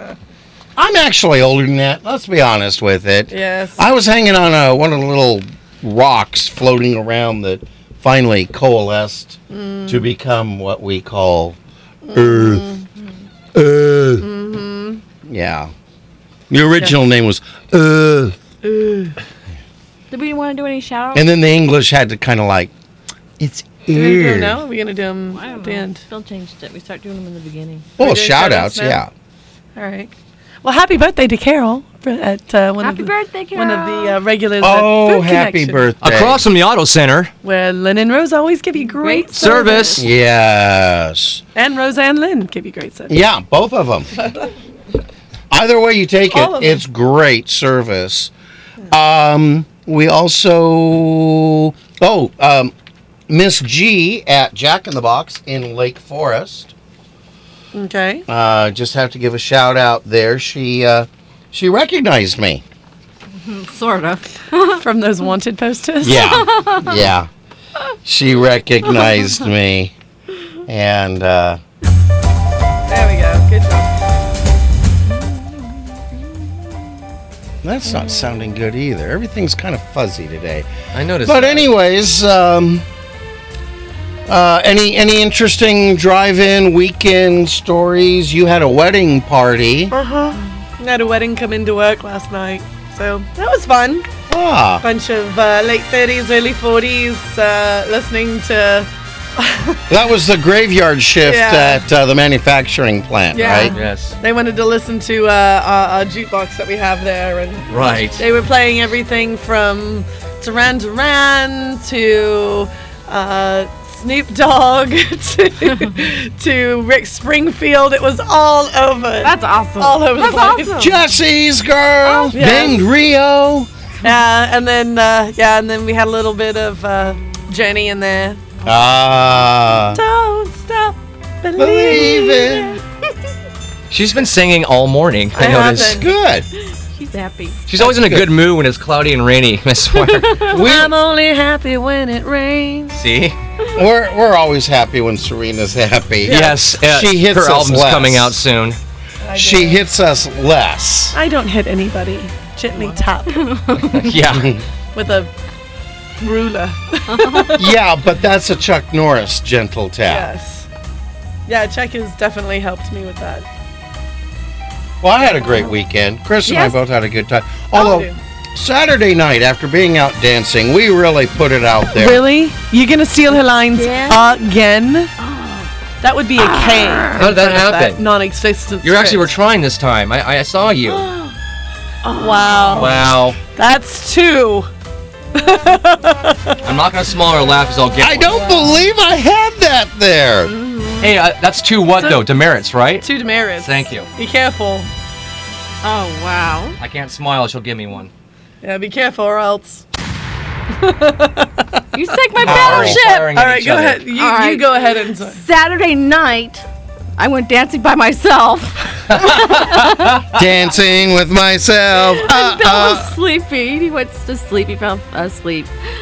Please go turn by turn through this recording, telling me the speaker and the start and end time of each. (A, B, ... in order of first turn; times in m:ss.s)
0:00.8-0:11.6 A
0:03.3-0:03.8 B
0:09.5-0:10.1 B
0:12.1-0:12.8 B
0:12.1-0:12.7 A
0:13.5-0:14.3 A
0:14.2-0:15.0 B
0:15.2-0:15.7 A
0:16.5-0:18.4 A
0:18.6-0:19.1 B
0:20.1-0:21.3 C
0:21.1-0:22.7 A
0:23.4-0:24.6 A
0:23.9-0:26.0 B
0:25.3-0:27.9 C
0:28.0-0:29.0 B
0:28.0-0:29.1 A
0:29.8-0:30.1 B
0:30.6-0:35.9 B
0:32.8-0:34.2 C
0:34.6-0:36.4 A
0:36.0-0:37.3 D
0:37.4-0:40.0 B
0:38.8-0:40.1 C
0:39.4-0:40.0 D
0:40.0-0:41.4 A
0:41.6-0:43.1 B
0:43.1-0:44.1 A
0:45.5-0:48.3 A
0:46.3-0:46.8 B
0:48.9-0:52.7 A
0:53.3-0:56.7 A
0:57.7-0:58.2 B
0:58.3-1:02.6 A
1:03.4-1:04.8 C
1:04.8-1:06.2 B
1:06.0-1:07.3 A
1:06.1-1:06.9 C
1:08.0-1:09.9 A
1:10.7-1:11.6 A
1:12.9-1:13.9 B
1:17.6-1:20.7 A
1:20.9-1:21.7 D
1:21.2-1:22.8 A
1:24.3-1:29.9 A
1:29.9-1:34.1 B
1:34.3-1:34.8 A
1:34.8-1:39.8 B
1:39.9-1:43.8 A
1:41.2-1:41.8 B
1:43.3-2:01.0 B
1:43.8-1:44.1 D
1:47.7-1:48.2 D
1:59.2-2:00.7 C
2:00.8-2:03.7 A
2:02.0-2:02.7 C
2:02.3-2:02.9 B
2:04.0-2:08.4 B
2:08.6-2:10.0 A
2:09.9-2:12.7 B
2:11.6-2:12.8 A
2:13.9-2:15.9 D
2:15.4-2:16.1 B
2:15.4-2:16.5 A
2:16.9-2:17.6 C
2:17.7-2:20.4 D
2:17.8-2:18.3 A
2:20.2-2:20.6 C
2:20.5-2:20.9 A
2:20.5-2:23.0 B
2:22.9-2:23.4 D
2:23.8-2:28.4 A
2:26.2-2:28.8 D
2:26.3-2:26.6 B
2:29.2-2:29.9 B
2:29.4-2:31.2 A
2:31.1-2:33.5 B
2:32.8-2:34.2 C
2:33.8-2:34.6 D
2:34.3-2:34.6 A
2:35.0-2:35.3 B
2:36.2-2:37.7 B
2:37.1-2:37.6 C
2:37.6-2:40.3 A
2:40.1-2:40.7 B
2:41.5-2:43.5 B
2:45.0-2:52.2 A
2:46.4-2:46.8 C
2:47.7-2:48.2 B
2:51.9-2:55.1 B
2:53.7-2:54.4 C
2:55.2-2:55.7 C
2:56.0-2:59.3 B
2:56.4-2:57.2 C
2:57.2-2:58.0 D
2:58.8-3:01.1 D
3:00.9-3:01.4 C
3:02.0-3:03.1 C
3:02.1-3:03.0 B
3:02.7-3:03.4 D
3:03.6-3:04.7 B
3:05.4-3:06.6 B
3:06.6-3:08.3 D
3:08.0-3:10.5 A
3:08.4-3:08.7 B
3:10.4-3:11.2 C
3:11.0-3:13.1 D
3:12.0-3:12.3 B
3:13.0-3:14.9 B
3:13.6-3:14.1 D
3:15.8-3:16.8 C
3:16.8-3:18.1 D
3:18.6-3:19.8 B
3:20.8-3:21.8 B
3:21.9-3:23.3 C
3:22.4-3:24.1 D
3:22.4-3:23.0 A
3:22.8-3:25.4 B
3:24.1-3:26.6 C
3:27.2-3:30.3 C
3:29.3-3:29.7 A
3:30.3-3:33.1 A
3:32.1-3:35.7 C